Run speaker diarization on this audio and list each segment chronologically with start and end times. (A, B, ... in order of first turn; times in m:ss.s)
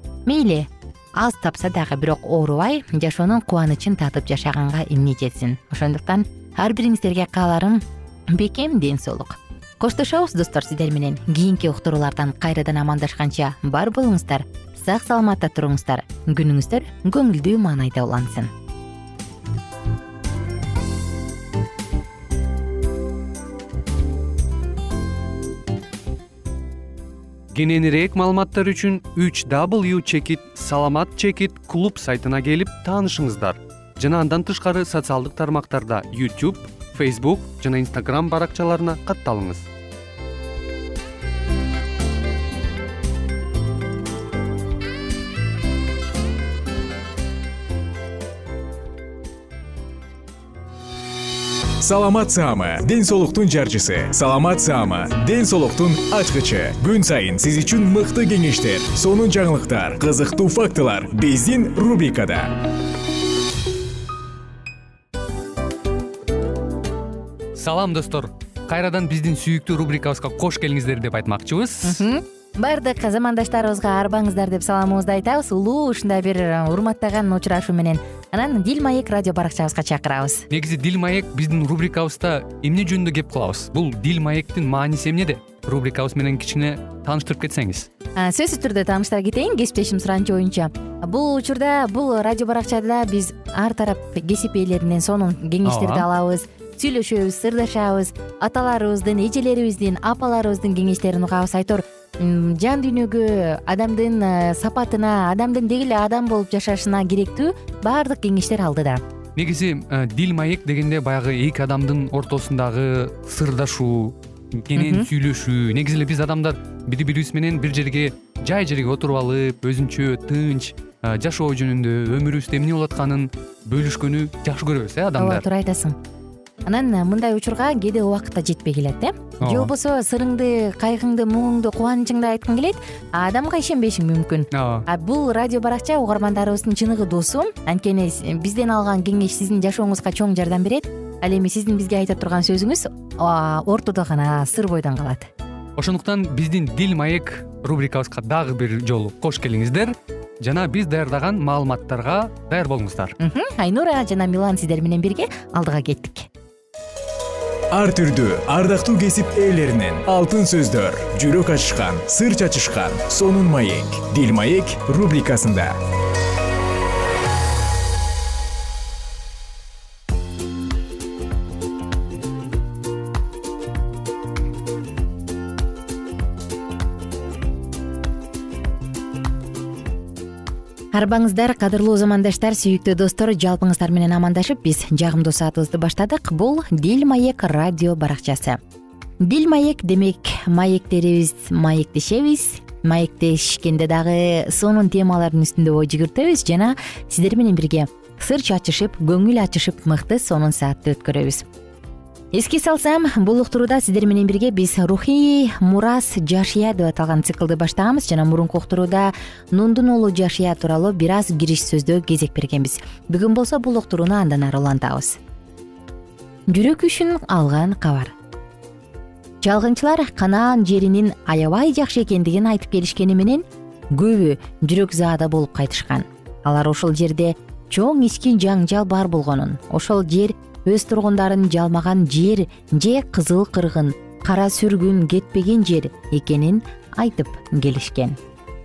0:00.2-0:18.5 A
0:27.5-0:39.7 B
0:51.8-1:02.6 C
1:07.5-1:12.0 B
1:11.8-1:20.4 A
1:20.5-1:27.9 B
1:28.2-1:49.0 A
1:35.6-1:36.1 B
1:49.4-2:05.4 B
1:54.7-1:55.1 A
2:05.2-2:06.0 A
2:06.6-2:25.3 A
2:09.4-2:09.7 B
2:14.5-2:14.8 B
2:25.8-2:33.1 B
2:33.2-2:36.3 A
2:37.7-2:45.7 C
3:00.9-3:08.6 A
3:09.2-3:21.4 A
3:22.3-3:35.2 A
3:36.5-3:38.1 A
3:39.4-3:58.2 A